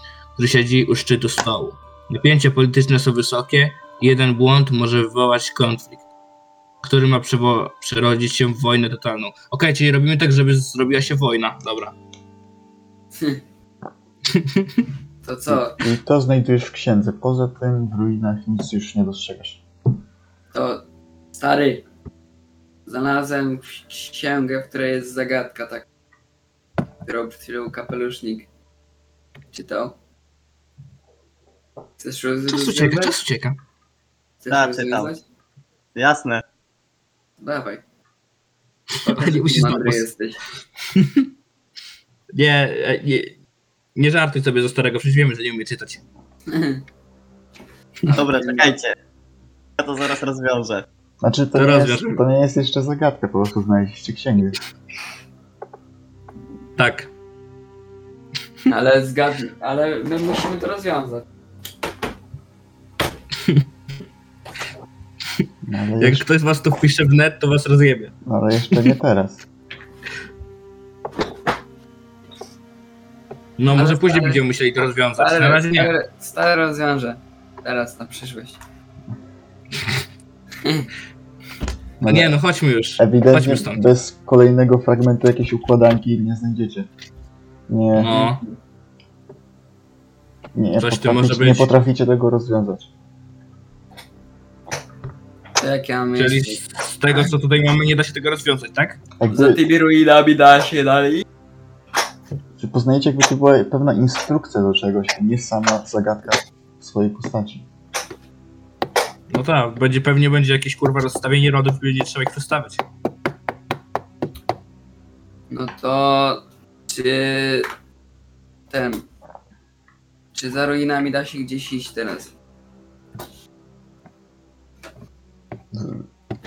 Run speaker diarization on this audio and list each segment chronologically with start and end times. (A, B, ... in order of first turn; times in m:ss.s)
0:00.4-0:06.0 A
0:06.8-0:12.0 A
0:13.2-0:13.4 B
0:14.3-0:14.8 A
0:15.2-0:15.8 B
0:15.5-0:19.6 C
0:20.5-0:20.8 B
0:21.3-0:21.8 B
0:22.8-0:25.8 B
0:27.0-0:28.5 B
0:29.5-0:30.0 B
0:32.0-0:33.1 B
0:32.5-0:33.6 A
0:34.4-0:35.2 B
0:34.5-0:35.1 D
0:36.0-0:36.4 D
0:37.4-0:37.8 B
0:39.0-0:40.0 A
0:39.0-0:40.4 B
0:40.9-0:41.3 A
0:42.3-0:43.4 A
0:43.9-0:46.0 A
0:46.5-0:46.8 B
0:48.0-0:48.7 B
0:48.1-0:48.9 D
0:49.8-0:50.8 D
0:51.2-0:54.6 C
0:51.5-0:52.2 A
0:56.8-0:57.1 A
0:58.7-1:01.2 B
1:05.6-1:06.2 C
1:06.0-1:08.1 A
1:08.2-1:09.4 C
1:13.6-1:15.9 A
1:13.7-1:14.4 B
1:15.2-1:18.6 B
1:20.6-1:20.9 B
1:22.0-1:22.4 C
1:22.1-1:23.8 A
1:23.0-1:26.9 C
1:27.7-1:28.3 C
1:27.9-1:28.4 A
1:30.5-1:32.9 C
1:30.8-1:31.7 A
1:35.6-1:37.3 B
1:36.1-1:39.0 A
1:39.2-1:39.6 C
1:39.3-1:41.2 B
1:42.6-1:47.6 C
1:49.3-1:52.8 A
1:55.5-1:57.7 B
1:58.7-1:59.0 B
2:00.3-2:02.3 B
2:05.7-2:06.0 C